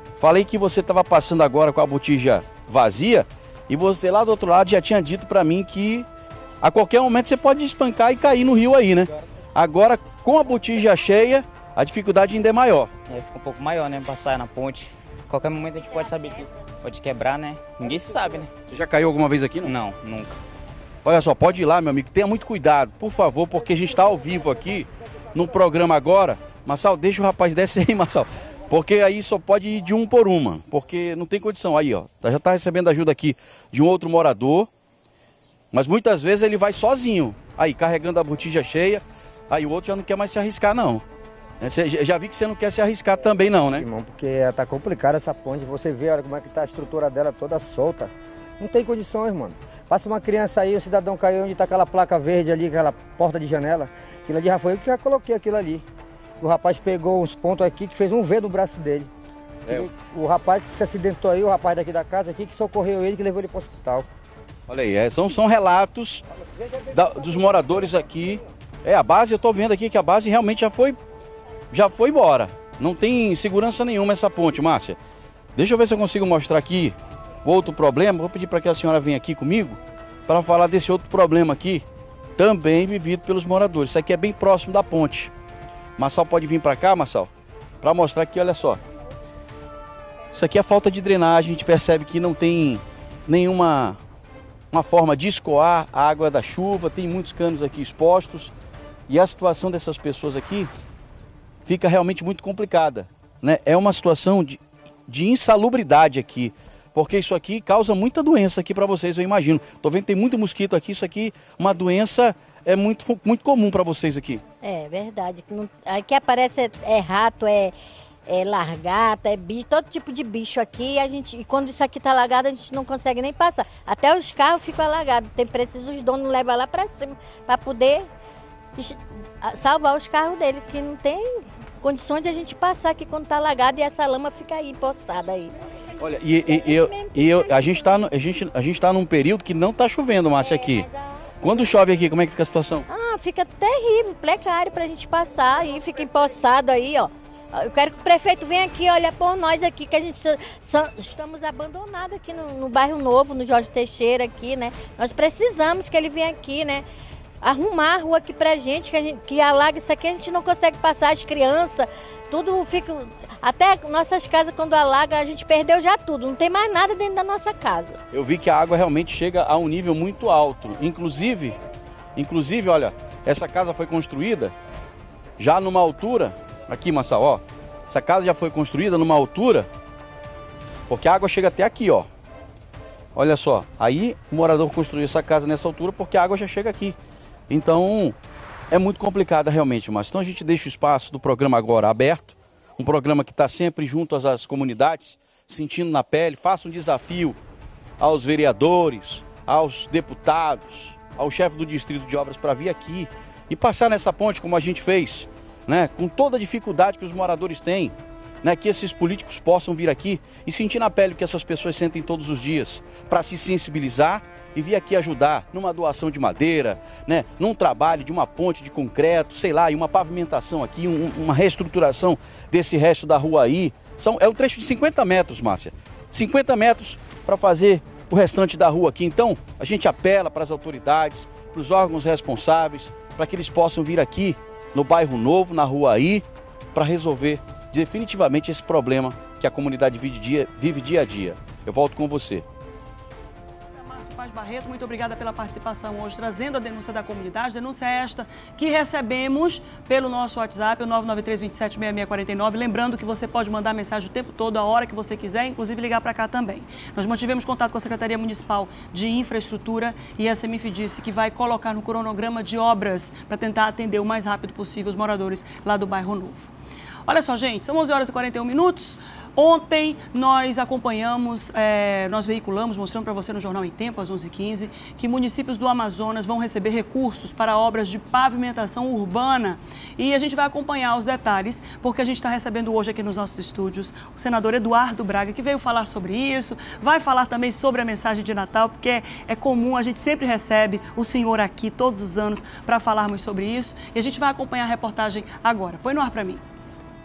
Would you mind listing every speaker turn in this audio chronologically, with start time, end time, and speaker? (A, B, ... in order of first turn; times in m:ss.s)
0:00.2-0:06.1 A
0:06.6-0:12.9 A
0:13.1-0:18.5 B
0:18.7-0:19.8 A
0:19.7-0:20.3 B
0:21.0-0:34.7 A
0:35.7-0:41.0 A
0:41.6-0:43.8 A
0:43.8-0:55.8 C
0:56.4-0:59.1 C
0:59.7-1:04.1 C
1:04.7-1:06.2 A
1:06.9-1:11.0 A
1:11.7-1:15.0 A
1:15.6-1:21.8 A
1:22.4-1:25.3 A
1:26.0-1:27.3 A
1:27.8-1:28.8 A
1:30.3-1:34.0 A
1:34.7-1:38.5 A
1:39.1-1:40.7 A
1:41.6-1:54.4 A
1:54.6-1:57.7 D
1:58.3-2:08.0 D
2:08.8-2:15.5 D
2:16.0-2:20.8 A
2:16.5-2:17.8 D
2:20.5-2:20.8 D
2:21.4-2:22.8 A
2:22.9-2:36.8 D
2:37.4-2:48.0 D
2:48.1-2:51.6 A
2:52.2-2:54.5 A
2:55.4-2:59.7 A
3:00.9-3:02.1 A
3:03.1-3:07.0 A
3:07.5-3:08.1 A
3:08.7-3:17.4 A
3:18.0-4:02.4 A
4:03.7-4:26.5 E
4:27.1-4:56.4 E